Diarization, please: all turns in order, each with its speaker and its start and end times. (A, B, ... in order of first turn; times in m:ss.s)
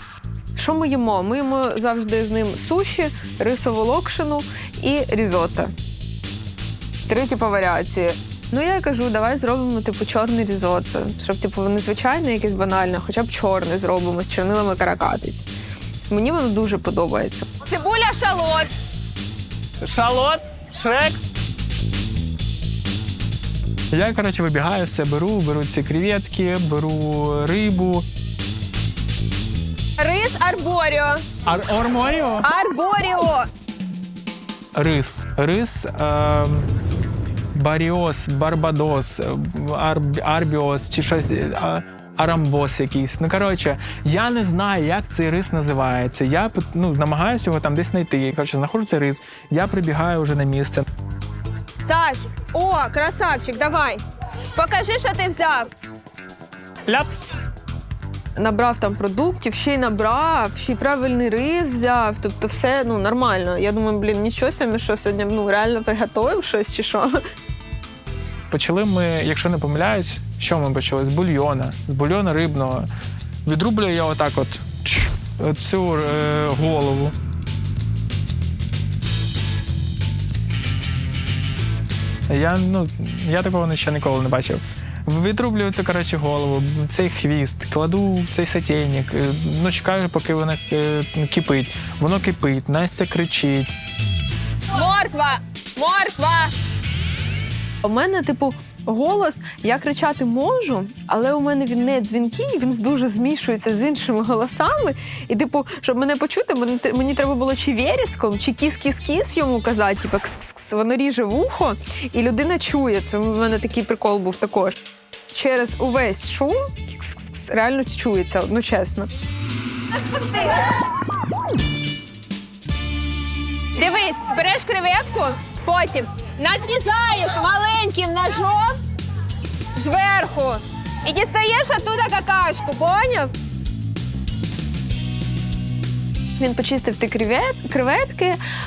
0:00.6-0:05.7 A
0:07.1-0:15.5 A
0:16.1-0:17.5 A
0:17.6-0:18.7 B
0:19.8-0:21.2 C
0:23.9-0:28.0 C
0:30.0-0:31.2 B
0:31.5-0:32.5 C
0:32.5-0:33.3 B
0:34.7-0:36.7 C
0:37.5-0:50.8 C
0:52.0-0:54.0 B
0:54.6-0:55.7 B
0:57.0-0:57.3 C
0:58.4-1:07.2 A
1:08.5-1:12.9 C
1:13.4-1:17.1 C
1:22.3-1:33.7 C
1:34.7-1:36.5 B
1:37.8-1:54.8 A
1:55.3-1:59.1 A
2:00.2-2:00.7 B
2:03.7-2:08.8 B
2:09.8-2:13.3 B
2:16.4-2:18.4 A